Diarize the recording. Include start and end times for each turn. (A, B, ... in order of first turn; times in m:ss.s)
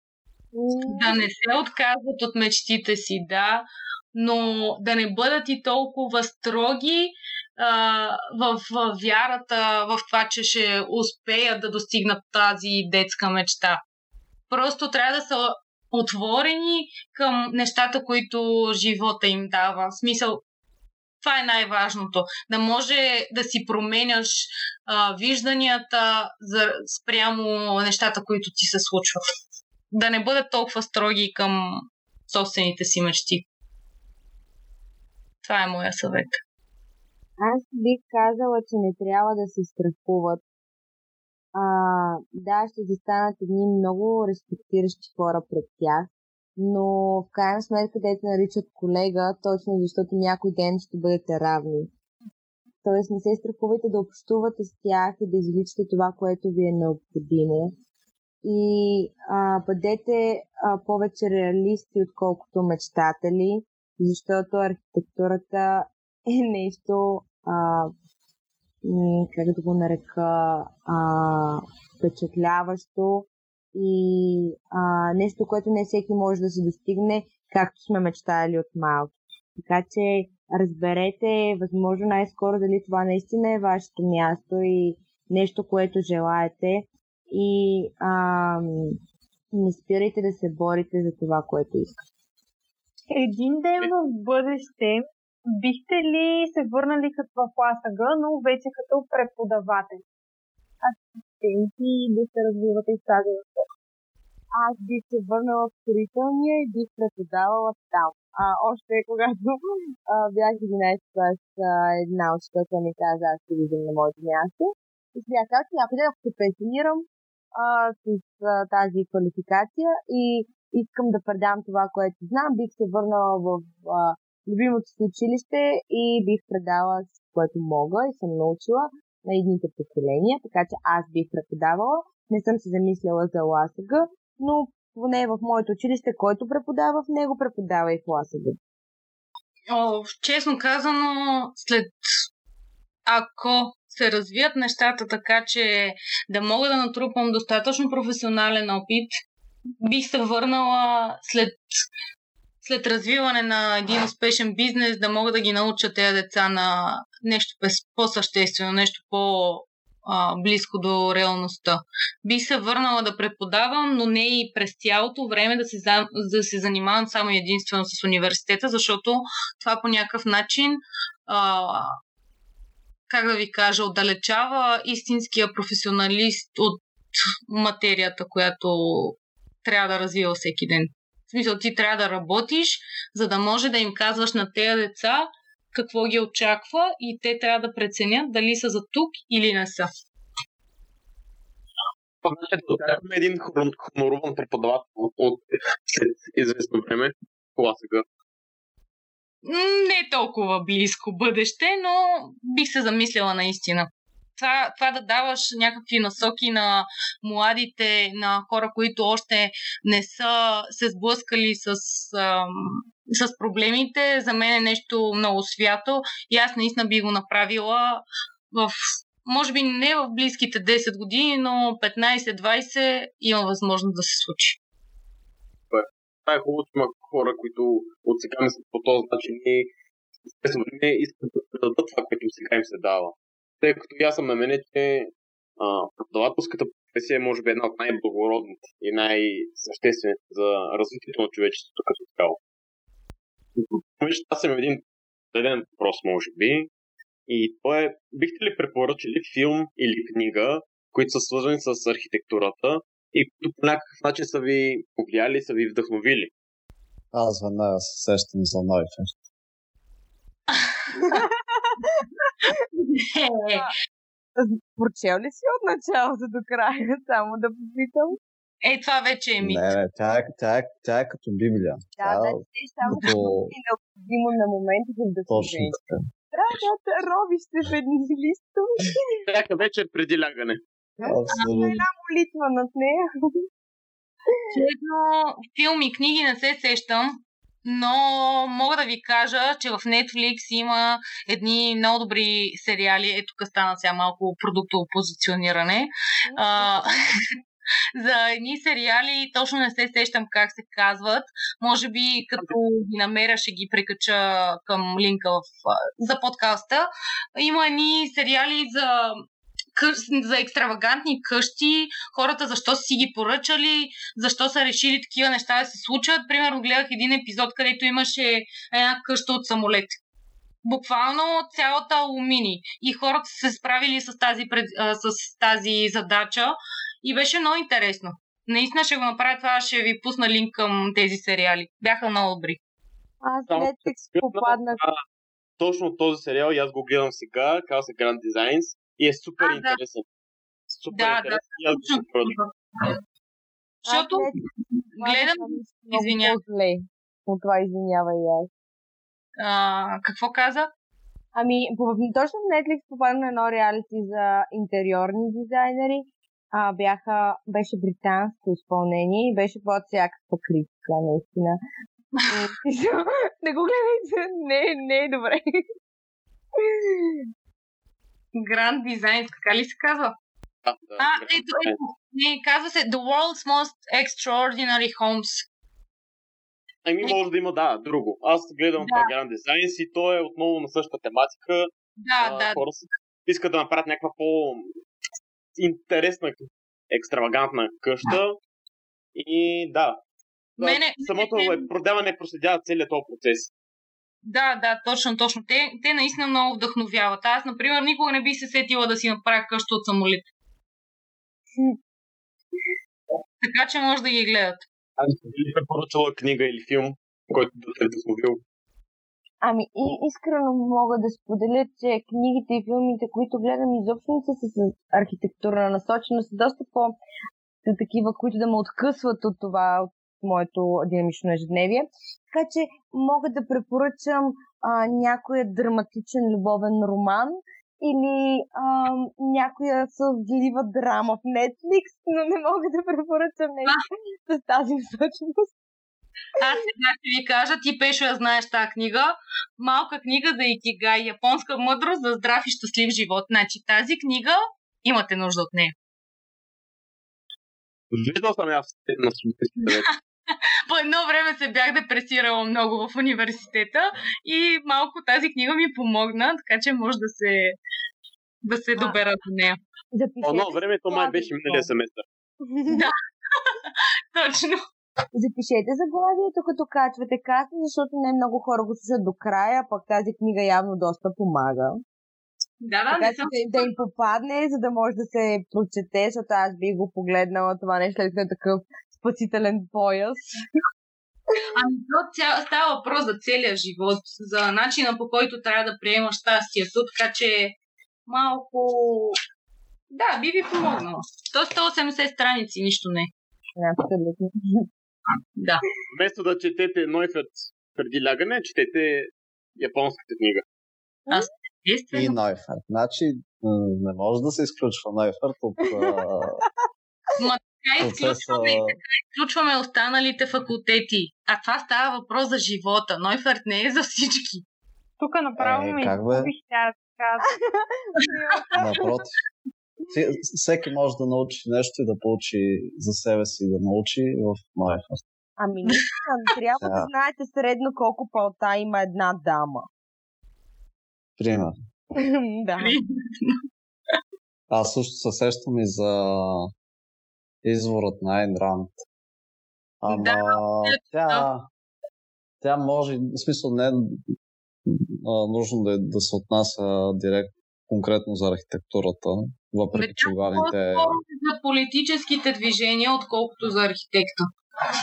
0:00.5-0:01.2 A
0:00.8-0:13.8 B
0:14.5-0:20.4 B
0:21.2-0:29.2 B
0:29.9-0:33.5 B
0:35.4-0:36.4 B
0:37.4-0:40.4 A
0:41.5-0:51.9 A
0:52.8-0:57.8 A
0:58.4-1:07.9 A
1:08.8-1:29.0 A
1:29.5-1:32.0 A
1:33.1-1:35.1 C
1:35.6-1:40.0 C
1:40.8-1:43.5 C
1:44.5-2:18.6 A
2:19.7-2:22.1 B
2:23.0-2:29.1 B
2:29.8-2:31.6 B
2:32.6-2:51.9 B
2:53.1-3:09.9 B
3:12.2-3:18.0 D
3:19.4-3:44.6 B
3:45.7-3:49.7 D
3:50.4-4:02.4 D
4:03.6-4:06.7 D
4:07.3-4:16.3 D
4:17.1-4:19.2 E
4:20.6-4:21.2 B
4:21.0-4:22.5 A
4:22.4-4:23.7 B
4:24.4-4:28.2 A
4:28.6-4:29.7 B
4:29.4-4:32.4 E
4:32.0-4:35.8 A
4:32.9-4:33.5 E
4:35.3-4:36.1 E
4:36.3-4:39.2 A
4:39.2-4:40.6 D
4:41.0-4:43.0 A
4:41.0-4:41.8 E
4:41.3-4:41.8 B
4:44.5-4:57.0 B
4:56.3-4:56.9 A
4:57.9-5:09.2 B
5:09.7-5:19.9 B
5:20.6-5:32.6 B
5:33.2-5:34.8 A
5:33.5-5:35.0 D
5:35.6-5:40.0 D
5:39.4-5:39.8 B
5:40.7-5:42.4 D
5:40.9-5:42.9 B
5:43.8-5:44.4 A
5:43.9-5:44.3 B
5:44.9-5:46.4 B
5:45.0-5:48.5 A
5:49.4-5:50.7 B
5:51.3-6:01.6 A
6:02.3-6:05.6 A
6:06.6-6:07.2 A
6:08.4-6:10.1 B
6:10.6-6:11.8 D
6:11.0-6:15.5 B
6:16.8-6:21.7 D
6:18.8-6:19.1 B
6:22.0-6:22.6 B
6:22.2-6:24.7 D
6:25.6-6:28.4 D
6:29.1-6:30.0 D
6:30.6-6:33.5 D
6:30.6-6:31.6 B
6:34.2-6:40.2 B
6:43.4-6:44.6 B
6:45.0-6:48.4 D
6:49.4-6:57.0 A
6:57.6-7:15.5 A
7:16.4-7:25.7 B
7:27.9-7:29.9 D
7:30.7-7:37.5 B
7:38.4-7:39.6 B
7:39.9-7:41.7 A
7:40.2-7:42.0 D
7:42.5-7:42.8 A
7:42.7-7:44.6 B
7:45.1-7:51.8 A
7:52.6-7:53.7 B
7:52.9-8:00.2 A
8:01.5-8:07.5 B
8:08.0-8:09.2 B
8:09.9-8:13.1 B
8:13.6-8:14.7 A
8:15.4-8:15.6 B
8:15.9-8:20.4 D
8:21.1-8:22.2 B
8:21.9-8:26.4 E
8:25.7-8:26.1 A
8:27.2-8:34.4 B
8:27.8-8:28.8 E
8:35.0-8:37.3 C
8:35.4-8:36.3 E
8:37.9-8:38.8 A
8:38.6-8:39.2 E
8:39.9-8:45.0 E
8:45.4-8:49.7 A
8:46.6-8:46.9 E
8:51.2-8:51.5 E
8:51.9-8:52.8 A
8:52.6-8:53.4 B
8:54.5-8:56.5 E
8:57.4-8:58.8 E
8:59.8-9:01.5 E
8:59.9-9:01.3 B
9:02.4-9:04.0 E
9:04.7-9:11.0 E
9:09.7-9:14.3 B